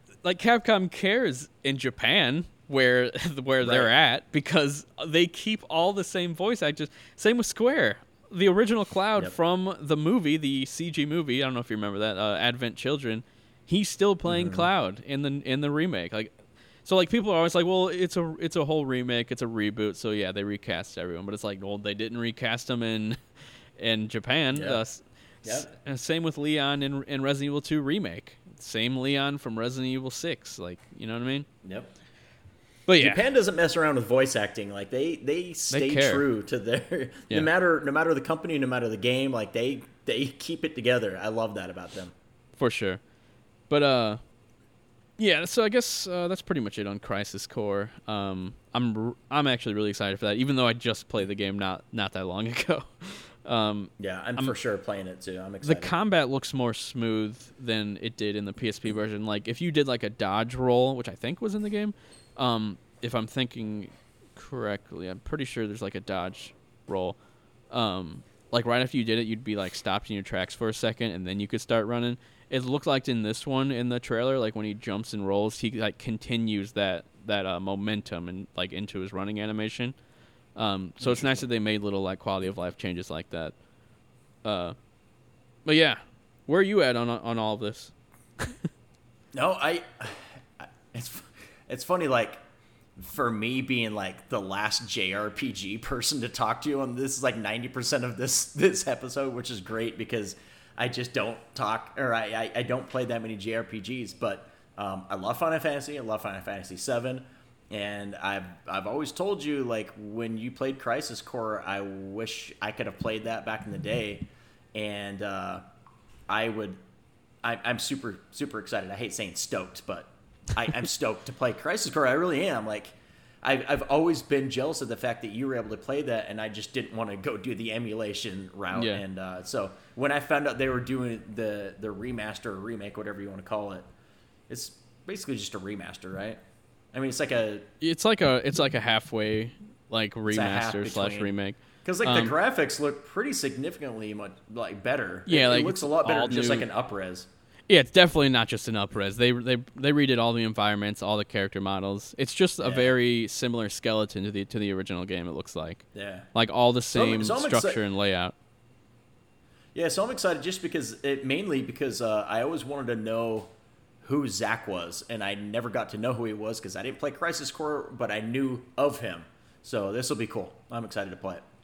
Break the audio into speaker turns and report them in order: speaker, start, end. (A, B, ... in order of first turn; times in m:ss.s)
0:00.2-0:16.3 A
0:03.6-0:03.9 B
0:14.3-0:14.7 B
0:16.8-0:23.2 A
0:23.8-0:31.5 A
0:24.5-0:24.8 B
0:25.4-0:25.7 B
0:31.6-0:31.9 B
0:32.9-0:33.2 A
0:33.0-0:42.1 B
0:35.7-0:36.2 A
0:42.6-0:43.0 A
0:43.7-0:44.2 A
0:45.2-0:54.5 A
0:54.0-0:55.9 B
0:55.6-1:07.2 A
1:07.7-1:19.9 A
1:20.6-1:23.5 A
1:24.4-1:24.7 A
1:25.6-1:28.7 A
1:29.3-1:32.4 B
1:33.0-1:55.6 B
1:56.3-1:56.8 B
1:57.4-2:13.8 B
2:08.7-2:09.0 A
2:14.5-2:16.4 B
2:16.9-2:17.6 B
2:17.8-2:22.3 A
2:20.3-2:21.3 B
2:21.8-2:27.3 B
2:25.3-2:26.7 A
2:27.7-2:38.3 A
2:32.6-2:33.0 B
2:35.9-2:36.3 B
2:36.9-2:37.8 B
2:39.7-2:43.5 B
2:44.0-2:51.4 B